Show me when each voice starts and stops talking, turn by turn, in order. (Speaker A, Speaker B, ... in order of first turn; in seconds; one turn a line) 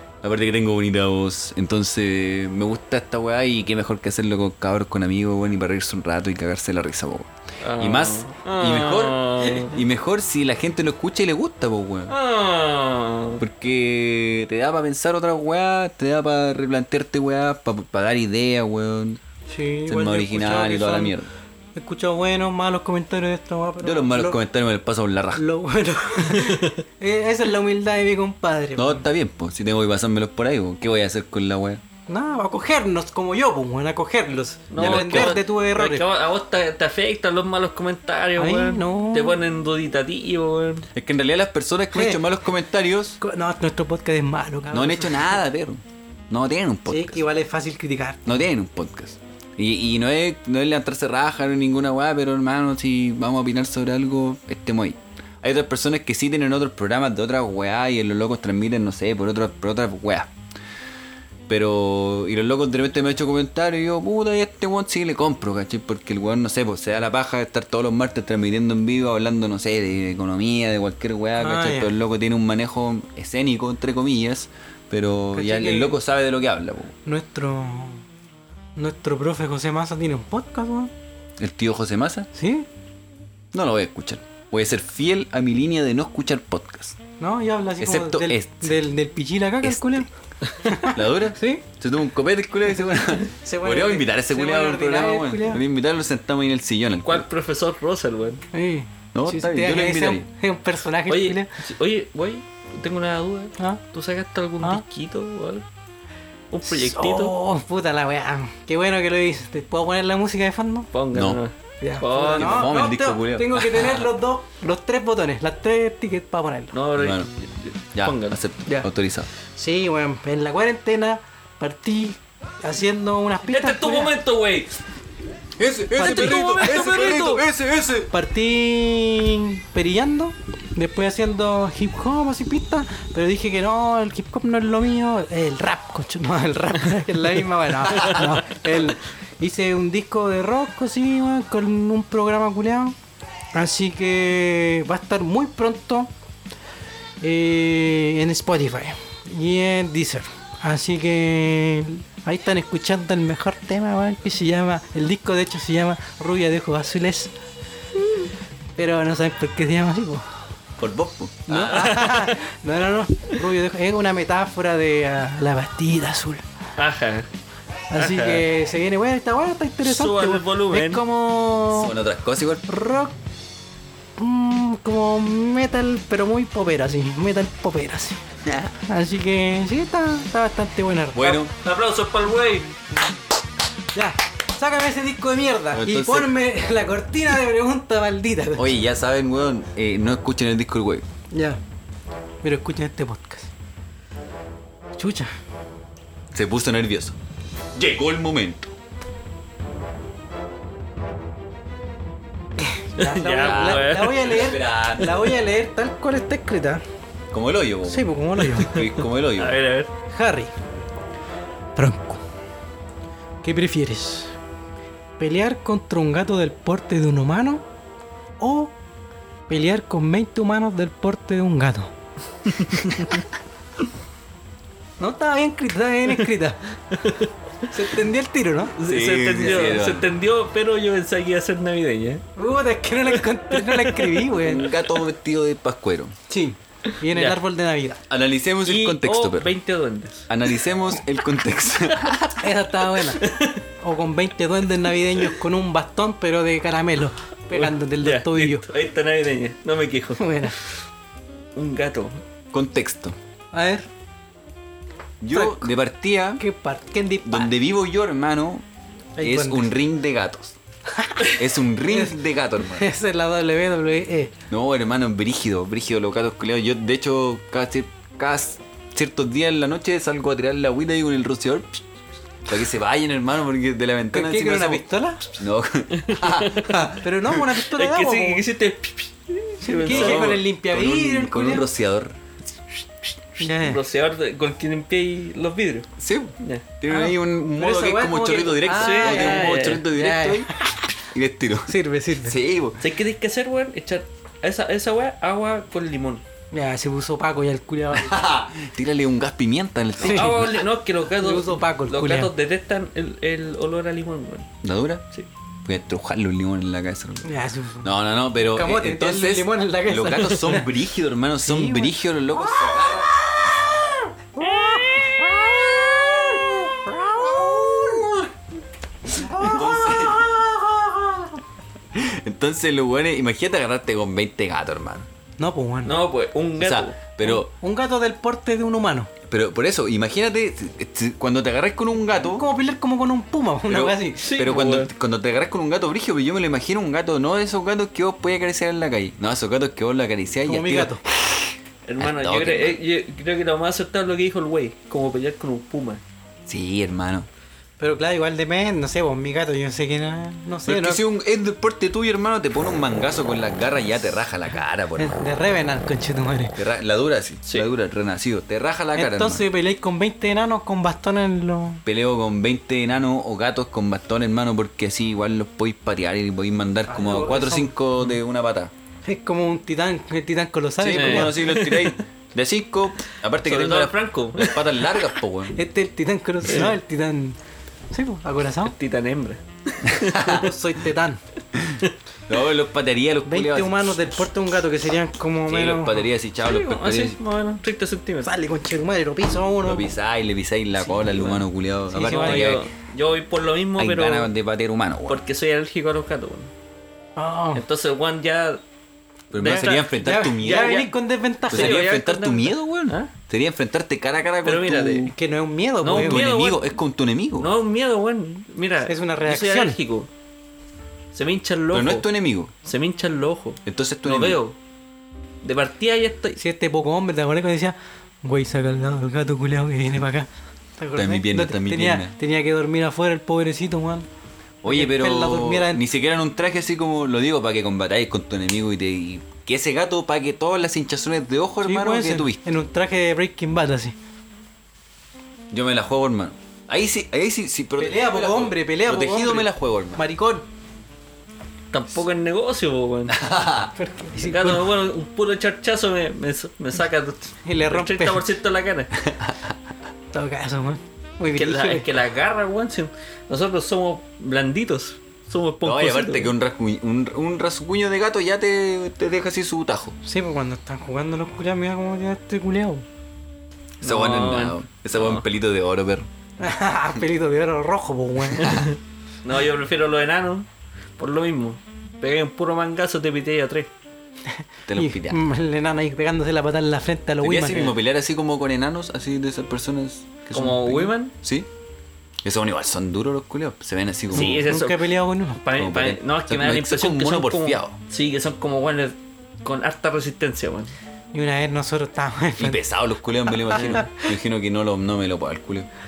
Speaker A: 0.2-12.1
Speaker B: 7.6-9.8
Speaker B: 12.1-13.4
Speaker A: 13.4-19.2
Speaker C: 19.5-21.2
Speaker A: 19.9-21.3
Speaker C: 21.7-24.4
Speaker A: 23.8-25.4
Speaker C: 25.3-29.0
Speaker B: 26.4-26.7
Speaker A: 28.8-31.8
Speaker C: 32.1-36.0
Speaker B: 34.7-40.9
Speaker A: 34.8-35.4
Speaker C: 38.4-39.4
Speaker A: 40.9-43.2
Speaker C: 41.9-42.2
Speaker C: 43.2-45.4
Speaker A: 44.7-47.2
Speaker C: 46.9-48.4
Speaker A: 48.2-60.3
Speaker A: 61.5-76.9
Speaker C: 71.4-71.9
Speaker C: 75.3-76.0
Speaker C: 77.0-78.0
Speaker C: 78.8-80.9
Speaker A: 81.4-82.3
Speaker C: 82.3-82.7
Speaker A: 83.5-87.0
Speaker C: 87.2-90.1
Speaker A: 87.8-88.8
Speaker A: 89.6-90.1
Speaker C: 90.6-91.6
Speaker A: 90.8-97.3
Speaker C: 93.4-95.6
Speaker B: 97.0-98.4
Speaker C: 98.5-101.5
Speaker A: 99.1-100.3
Speaker B: 101.1-105.6
Speaker B: 106.5-107.3
Speaker C: 106.7-110.9
Speaker B: 110.9-112.7
Speaker A: 111.1-111.4
Speaker C: 111.8-116.8
Speaker A: 112.3-114.1
Speaker B: 116.7-118.4
Speaker A: 117.0-117.3
Speaker A: 117.9-119.3
Speaker C: 119.5-124.1
Speaker B: 123.4-124.8
Speaker A: 125.6-128.1
Speaker C: 125.9-127.4
Speaker C: 128.1-142.9
Speaker B: 138.0-138.3
Speaker C: 143.5-146.1
Speaker C: 147.2-157.3
Speaker C: 158.8-160.2
Speaker A: 160.8-162.0
Speaker C: 161.5-166.4
Speaker B: 161.7-162.4
Speaker B: 166.8-167.3
Speaker C: 167.9-171.9
Speaker B: 167.9-168.4
Speaker B: 169.8-171.0
Speaker A: 171.7-172.6
Speaker C: 172.7-173.1
Speaker C: 174.2-178.2
Speaker A: 178.4-178.7
Speaker C: 178.8-181.4
Speaker A: 181.1-181.5
Speaker B: 181.6-182.7
Speaker C: 183.9-188.8
Speaker A: 185.7-186.3
Speaker A: 188.5-191.0
Speaker C: 191.3-191.6
Speaker C: 192.4-193.5
Speaker C: 195.0-195.3
Speaker A: 196.3-197.2
Speaker A: 197.7-198.7
Speaker C: 202.6-206.8
Speaker B: 203.0-204.3
Speaker A: 203.4-205.2
Speaker A: 207.3-209.6
Speaker C: 207.8-208.7
Speaker B: 208.6-209.9
Speaker C: 210.1-210.5
Speaker C: 211.8-212.2
Speaker C: 213.4-214.3
Speaker C: 215.2-217.6
Speaker C: 218.4-218.7
Speaker C: 219.5-221.9
Speaker B: 222.7-223.1
Speaker C: 225.0-226.6
Speaker B: 227.0-227.3
Speaker C: 227.7-228.8
Speaker B: 228.8-232.2
Speaker A: 228.8-230.1
Speaker C: 232.3-234.7
Speaker B: 233.5-234.2
Speaker A: 234.3-236.1
Speaker C: 236.3-238.0
Speaker B: 237.1-237.4
Speaker A: 238.1-239.5
Speaker B: 238.6-240.3
Speaker A: 240.3-242.5
Speaker C: 242.4-243.2
Speaker B: 243.2-243.6
Speaker C: 243.8-248.7
Speaker B: 247.5-250.5
Speaker C: 250.2-250.6
Speaker B: 251.5-252.2
Speaker A: 252.5-253.2
Speaker C: 253.5-253.9
Speaker A: 255.2-256.4
Speaker C: 255.3-255.7
Speaker C: 256.4-257.5
Speaker A: 257.2-258.6
Speaker C: 259.2-259.8
Speaker A: 259.2-260.6
Speaker C: 260.9-262.2
Speaker A: 261.3-262.9
Speaker C: 262.7-264.3
Speaker A: 264.5-271.8
Speaker A: 272.5-274.8
Speaker C: 274.1-275.4
Speaker A: 275.4-277.0
Speaker B: 276.0-276.9
Speaker C: 277.0-278.4
Speaker B: 277.7-280.4
Speaker C: 279.6-281.6
Speaker A: 279.8-282.1
Speaker C: 283.4-283.8
Speaker B: 283.4-285.9
Speaker A: 286.0-290.5
Speaker C: 286.9-290.9
Speaker B: 288.7-289.9
Speaker A: 291.1-292.8
Speaker C: 291.7-292.4
Speaker B: 292.8-296.2
Speaker C: 296.5-298.2
Speaker A: 297.9-300.6
Speaker C: 300.0-300.4
Speaker B: 300.0-304.5
Speaker C: 301.2-302.3
Speaker A: 304.6-305.0
Speaker A: 305.6-307.3
Speaker C: 307.2-310.7
Speaker A: 307.8-313.2
Speaker C: 311.4-313.5
Speaker C: 314.4-318.1
Speaker A: 317.4-318.2
Speaker C: 319.1-321.3
Speaker A: 319.2-320.4
Speaker A: 321.9-325.1
Speaker C: 325.4-326.0
Speaker B: 325.8-327.0
Speaker A: 326.6-327.5
Speaker C: 327.2-329.1
Speaker A: 329.3-332.4
Speaker C: 332.3-334.2
Speaker A: 333.7-342.8
Speaker B: 334.2-334.9
Speaker C: 340.4-341.0
Speaker B: 341.9-346.0
Speaker A: 346.5-347.3
Speaker C: 347.8-351.0
Speaker A: 350.6-355.2
Speaker C: 355.0-356.6
Speaker A: 356.6-359.4
Speaker C: 358.9-361.8
Speaker A: 361.8-368.7
Speaker C: 366.9-367.7
Speaker C: 369.0-371.4
Speaker A: 370.8-375.6
Speaker B: 370.9-372.0
Speaker B: 373.4-374.7
Speaker C: 375.5-377.4
Speaker B: 376.4-376.7
Speaker C: 377.9-378.7
Speaker B: 378.6-380.2
Speaker A: 379.9-380.5
Speaker C: 380.1-381.2
Speaker A: 381.5-384.2
Speaker C: 383.2-386.1
Speaker A: 385.5-387.2
Speaker B: 386.4-388.3
Speaker C: 388.2-389.9
Speaker A: 389.6-392.7
Speaker B: 390.9-391.4
Speaker C: 391.9-392.6
Speaker B: 392.0-394.3
Speaker A: 393.8-395.2
Speaker B: 395.1-396.5
Speaker C: 397.2-397.6
Speaker B: 397.5-398.6
Speaker A: 399.3-400.9
Speaker B: 399.3-400.9
Speaker C: 399.5-401.8
Speaker B: 401.5-403.1
Speaker A: 401.5-405.1
Speaker B: 404.4-405.1
Speaker C: 405.1-406.2
Speaker B: 405.8-406.7
Speaker A: 405.9-407.5
Speaker B: 407.4-410.1
Speaker C: 408.9-409.8
Speaker B: 411.1-412.1
Speaker A: 411.7-412.5
Speaker B: 412.6-414.6
Speaker A: 413.6-414.4
Speaker B: 415.4-416.4
Speaker C: 416.4-424.1
Speaker A: 420.9-422.1
Speaker A: 424.6-432.4
Speaker C: 424.7-425.8
Speaker C: 431.6-433.9
Speaker A: 435.5-440.0
Speaker C: 437.8-440.4
Speaker B: 441.7-443.2
Speaker A: 443.1-443.7
Speaker C: 443.8-444.6
Speaker B: 444.2-448.9
Speaker C: 447.4-448.2
Speaker A: 449.1-449.5
Speaker C: 450.1-451.9
Speaker B: 451.3-456.3
Speaker A: 455.6-460.0
Speaker C: 460.0-462.8
Speaker B: 463.8-465.2
Speaker A: 463.8-466.1
Speaker C: 466.4-468.6
Speaker B: 468.4-470.5
Speaker A: 468.4-468.6
Speaker B: 471.0-473.7
Speaker C: 474.3-477.7
Speaker A: 474.7-475.2
Speaker A: 477.2-481.5
Speaker B: 480.3-481.1
Speaker A: 482.2-484.5
Speaker B: 484.1-490.7
Speaker C: 484.1-485.4
Speaker A: 485.5-487.8
Speaker C: 491.1-492.6
Speaker A: 492.4-495.7
Speaker C: 493.3-493.9